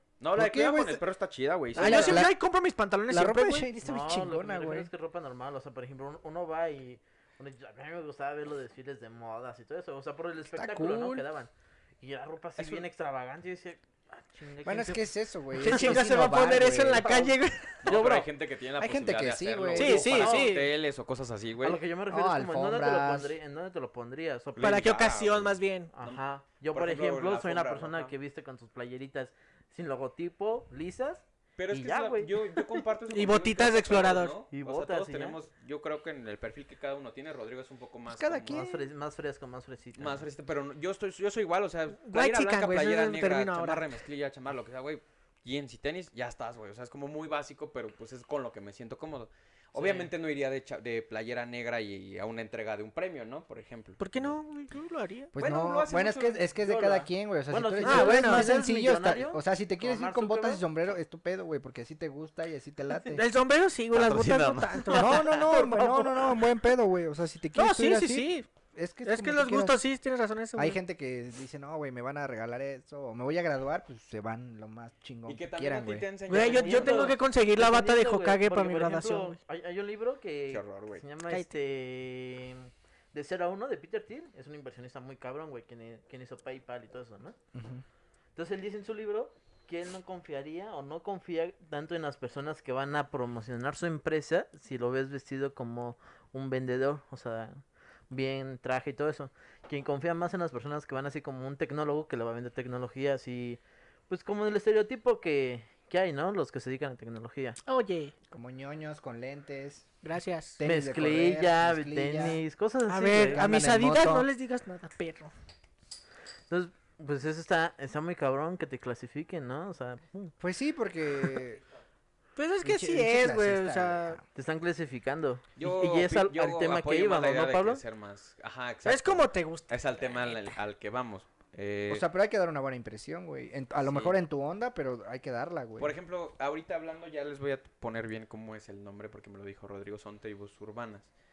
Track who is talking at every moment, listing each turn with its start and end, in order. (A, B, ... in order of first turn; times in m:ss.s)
0:00.2-0:02.3 A
0:00.3-0:01.0 B
0:01.7-0:02.4 B
0:01.8-0:03.7 C
0:03.1-0:04.9 B
0:03.8-0:15.1 D
0:10.5-0:11.2 B
0:12.6-0:12.8 A
0:14.6-0:17.3 B
0:15.6-0:17.9 C
0:15.6-0:15.9 D
0:17.0-0:17.3 D
0:17.8-0:21.8 A
0:17.9-0:18.2 D
0:18.8-0:20.4 B
0:19.7-0:20.7 C
0:21.6-0:24.9 D
0:22.1-0:23.3 B
0:24.5-0:28.1 A
0:24.6-0:25.9 C
0:25.9-0:32.6 D
0:31.6-0:38.6 A
0:33.1-0:34.3 C
0:34.5-0:35.4 D
0:38.1-0:38.8 B
0:38.5-0:40.2 D
0:40.0-0:54.4 A
0:42.0-0:43.8 C
0:49.7-0:50.1 D
0:54.0-0:55.3 C
0:55.3-1:03.2 B
0:55.4-0:56.5 A
0:56.6-1:00.6 D
0:57.8-0:58.6 C
1:03.1-1:06.1 C
1:03.9-1:05.2 A
1:04.9-1:06.0 D
1:04.9-1:09.8 B
1:07.6-1:08.4 C
1:09.0-1:10.8 C
1:10.6-1:16.1 B
1:15.2-1:17.2 A
1:16.3-1:19.4 C
1:16.3-1:27.4 D
1:20.5-1:21.0 A
1:27.5-1:27.8 B
1:28.4-1:47.6 D
1:47.6-1:48.1 C
1:48.3-1:49.9 B
1:50.0-1:50.6 C
1:50.6-1:52.4 B
1:50.6-1:53.4 D
1:52.9-1:55.3 C
1:53.1-1:54.3 B
1:56.5-2:00.3 D
2:00.4-2:01.6 B
2:02.4-2:04.2 C
2:02.6-2:04.2 B
2:04.3-2:07.8 D
2:05.6-2:12.1 A
2:08.8-2:10.4 C
2:11.9-2:15.9 B
2:13.8-2:14.1 A
2:15.8-2:21.1 A